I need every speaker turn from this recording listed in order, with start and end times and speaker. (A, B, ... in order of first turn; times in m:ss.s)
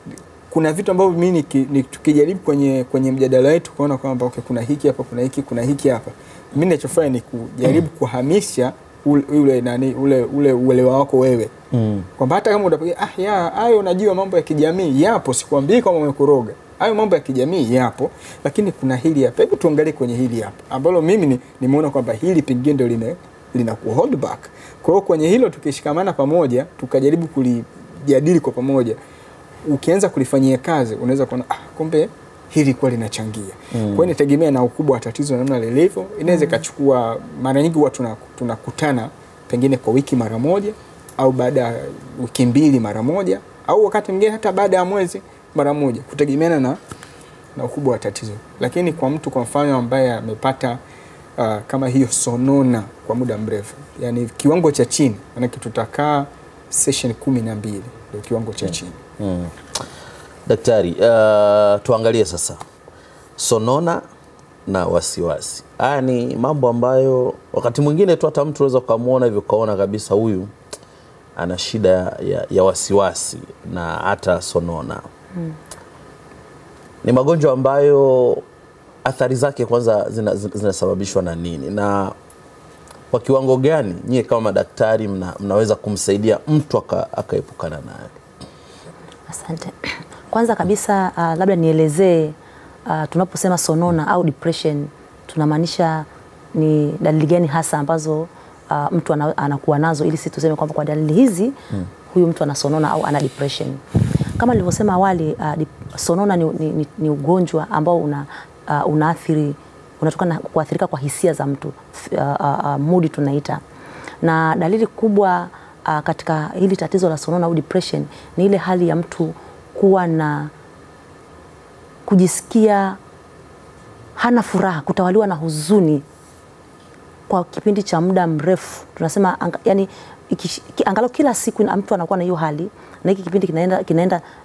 0:00.5-0:11.5 A
0:11.7-0:12.1 B
0:12.2-0:29.0 A
0:29.6-0:46.8 A
0:33.7-0:34.1 B
0:36.3-0:36.6 C
0:47.6-0:50.8 A
0:51.4-0:59.0 A
0:59.2-0:59.6 B
1:00.5-1:02.6 B
1:03.4-1:04.0 B
1:04.6-1:10.5 B
1:11.4-1:15.0 B
1:17.0-1:18.4 B
1:19.0-1:22.1 B
1:23.1-1:28.1 B
1:29.3-1:32.4 C
1:32.9-1:41.6 C
1:42.1-1:43.8 C
1:44.4-1:53.6 C
1:54.2-2:00.5 C
2:02.0-2:03.0 C
2:04.2-2:06.0 C
2:07.3-2:14.2 C